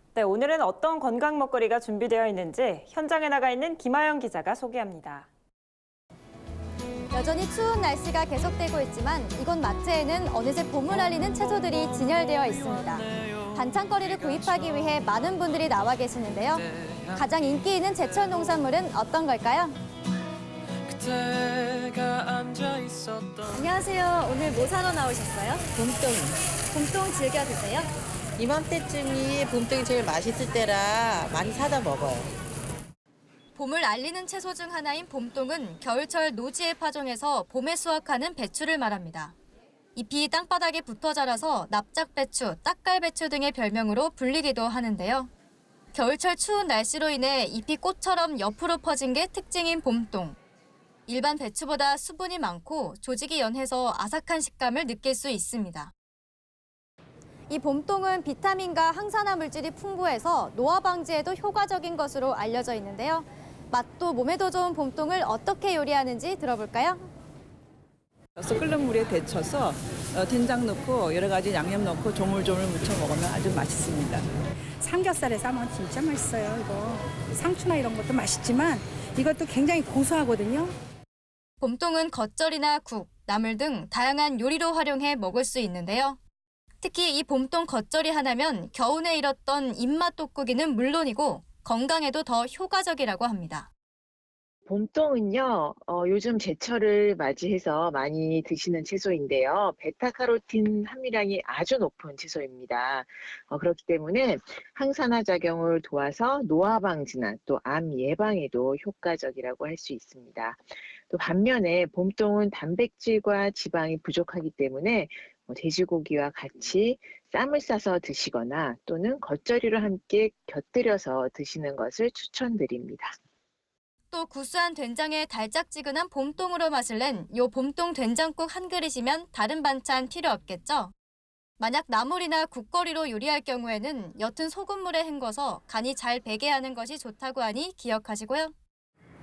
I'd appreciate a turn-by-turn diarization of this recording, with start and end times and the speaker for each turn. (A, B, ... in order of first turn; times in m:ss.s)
0:00.2-0:05.3 A
0:07.1-0:19.8 B
0:23.5-0:25.6 B
0:25.8-0:26.4 C
0:26.7-0:27.9 B
0:28.4-0:32.3 C
0:33.6-0:39.4 B
0:40.0-0:45.3 B
0:45.9-0:50.4 B
0:51.1-0:55.9 B
0:57.5-1:07.1 B
1:08.4-1:14.3 D
1:14.8-1:20.7 E
1:21.6-1:26.2 B
1:26.8-1:33.7 B
1:34.7-2:03.1 F
2:04.1-2:10.9 B
2:11.6-2:18.5 B